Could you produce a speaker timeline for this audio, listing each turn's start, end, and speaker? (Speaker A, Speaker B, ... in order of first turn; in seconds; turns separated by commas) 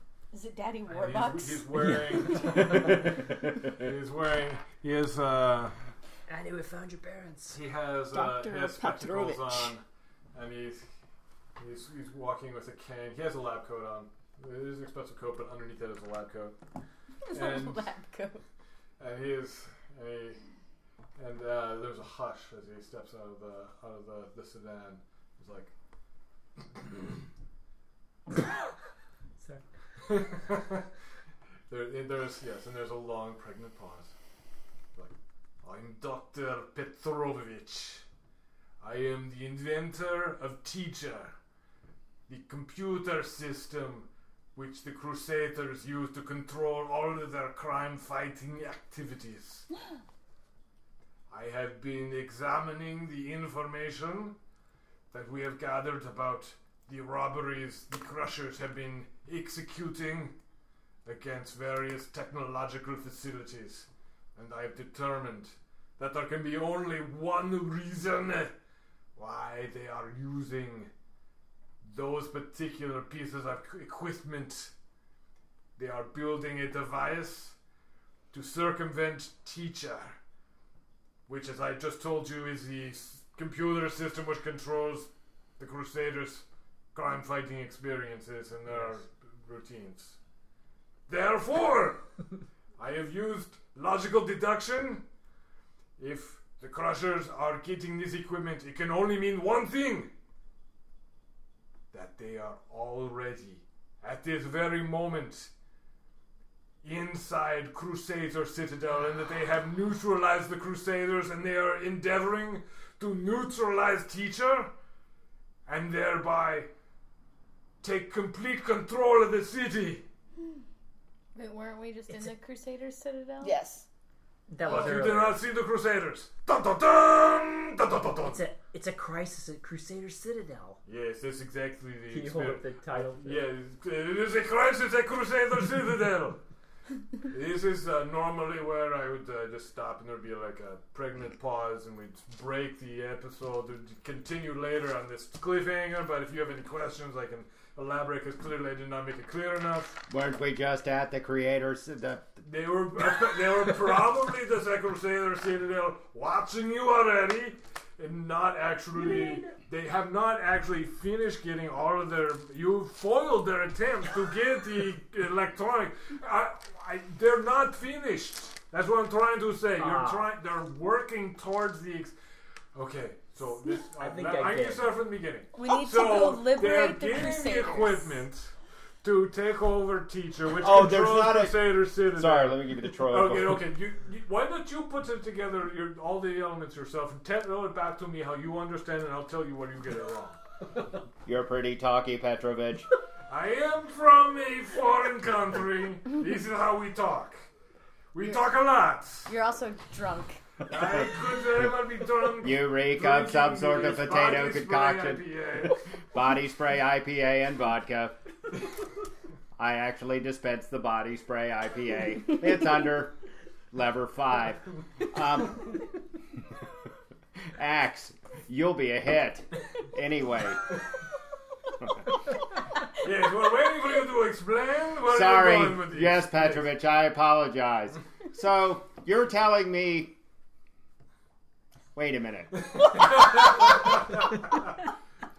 Speaker A: 0.3-2.6, Speaker B: 0.9-5.7, Speaker C: 1.7-2.8, Speaker C: 6.3-7.6, Speaker B: 7.5-10.9, Speaker D: 8.1-9.7, Speaker B: 11.6-16.6, Speaker A: 17.3-18.4, Speaker B: 17.3-17.9, Speaker B: 19.0-20.4, Speaker B: 21.2-25.7, Speaker C: 29.4-29.7, Speaker B: 30.1-30.9, Speaker B: 31.7-34.1, Speaker B: 35.0-38.1, Speaker B: 38.8-41.4, Speaker B: 42.3-49.7, Speaker B: 51.3-54.4, Speaker B: 55.1-60.4, Speaker B: 61.0-68.5, Speaker B: 69.2-70.9, Speaker B: 71.8-74.7, Speaker B: 75.8-77.6, Speaker B: 78.3-80.2, Speaker B: 81.3-90.2, Speaker C: 88.7-89.0, Speaker B: 91.1-92.0, Speaker B: 92.8-95.0, Speaker B: 96.0-100.1, Speaker B: 101.9-105.5, Speaker B: 106.8-114.7, Speaker B: 115.7-116.7, Speaker B: 117.8-120.0, Speaker A: 121.3-123.6, Speaker D: 123.4-123.9, Speaker C: 124.5-125.4, Speaker B: 124.6-128.4, Speaker C: 128.2-130.8, Speaker B: 130.9-136.4, Speaker C: 132.1-133.5, Speaker B: 137.3-150.0, Speaker E: 150.1-152.4, Speaker B: 152.4-172.2, Speaker C: 158.9-159.5, Speaker C: 169.8-170.3, Speaker B: 172.7-190.4, Speaker C: 174.0-174.9, Speaker A: 175.5-178.2, Speaker E: 180.6-183.7, Speaker E: 191.2-192.9, Speaker B: 193.3-197.5, Speaker B: 198.1-199.3, Speaker A: 199.3-200.4, Speaker B: 200.7-205.8, Speaker E: 202.4-208.2, Speaker E: 209.6-213.2, Speaker E: 213.7-215.8, Speaker E: 217.6-220.6, Speaker B: 223.0-226.7, Speaker E: 225.1-230.1, Speaker E: 231.9-232.8, Speaker B: 232.6-234.7